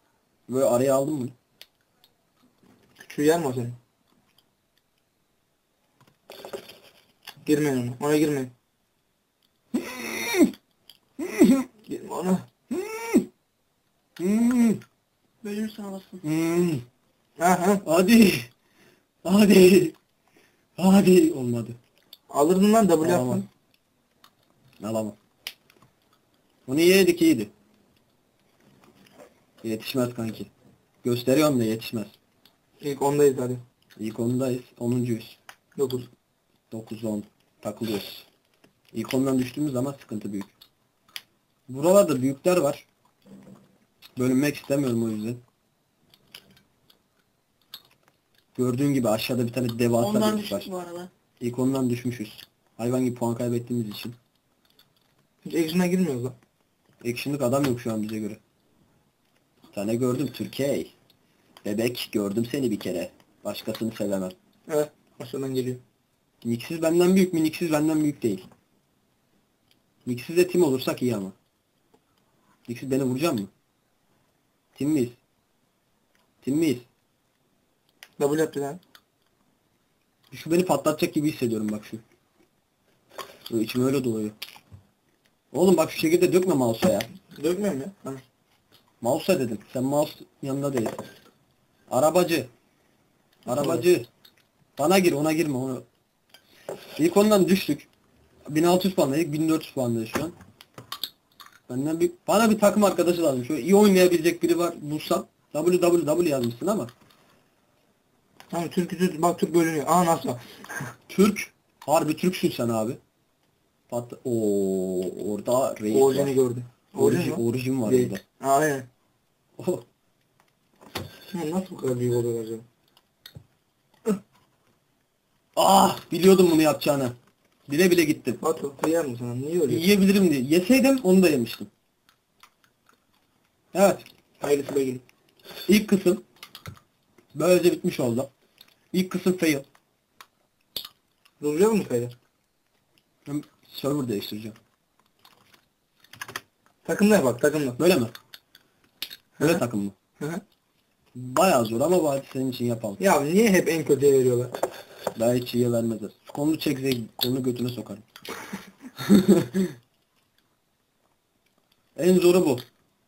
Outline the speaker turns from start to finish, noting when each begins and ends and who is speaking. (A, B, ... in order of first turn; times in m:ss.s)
0:00.5-0:01.3 A
0:03.0-0:03.8 B
0:07.4-0:08.5 B
0:09.7-0:10.5 A
0:11.2-0:11.7 A
0:11.9-0:12.4 B
0:12.7-0:13.3 A
0:14.2-0:14.8 A
0:15.4-0:16.2 C
0:16.2-0:16.8 A
0:17.4-0:17.8 B
0:17.8-0:18.5 A
0:19.2-0:20.0 A
0:20.8-0:21.8 A
0:22.3-0:23.4 B
0:23.0-0:23.4 A
0:24.8-0:25.2 A
0:26.7-0:27.5 A
0:29.6-0:30.5 A
0:31.0-0:32.1 A
0:32.8-0:33.6 B
0:34.0-0:35.4 A
0:35.8-0:36.1 B
0:36.7-0:38.2 A
0:38.9-0:40.5 A
0:41.7-0:42.8 A
0:44.2-0:45.4 A
0:48.6-0:50.7 A
0:50.0-0:51.1 C
0:51.4-0:54.2 A
0:55.4-0:56.4 B
0:57.0-0:58.4 A
0:59.7-1:00.9 A
1:01.6-1:04.3 A
1:04.7-1:05.8 B
1:06.4-1:08.4 A
1:10.0-1:11.3 A
1:12.7-1:13.5 A
1:14.7-1:15.2 A
1:16.4-1:16.8 A
1:18.2-1:18.8 B
1:20.3-1:22.0 A
1:23.5-1:24.4 A
1:25.5-1:27.1 A
1:27.3-1:28.2 B
1:29.0-1:31.0 A
1:31.9-1:32.5 A
1:33.5-1:34.1 A
1:33.5-1:33.8 B
1:34.8-1:35.8 A
1:37.0-1:37.9 A
1:38.5-1:40.3 A
1:41.7-1:46.9 A
1:48.5-1:50.9 B
1:51.1-1:53.0 A
1:53.9-1:56.3 A
1:55.9-1:58.9 B
1:57.0-1:58.2 A
1:59.6-1:59.8 A
2:01.3-2:02.6 B
2:05.6-2:07.1 A
2:07.7-2:08.4 A
2:08.4-2:09.8 B
2:09.7-2:11.7 A
2:13.7-2:14.0 A
2:14.4-2:15.0 B
2:15.7-2:16.2 A
2:17.3-2:18.3 A
2:18.9-2:19.6 A
2:21.4-2:22.1 B
2:23.2-2:24.6 A
2:26.8-2:27.8 B
2:27.8-2:28.1 A
2:29.4-2:29.9 A
2:31.1-2:33.0 A
2:33.0-2:34.5 B
2:35.1-2:38.0 A
2:39.0-2:39.8 A
2:42.0-2:42.6 A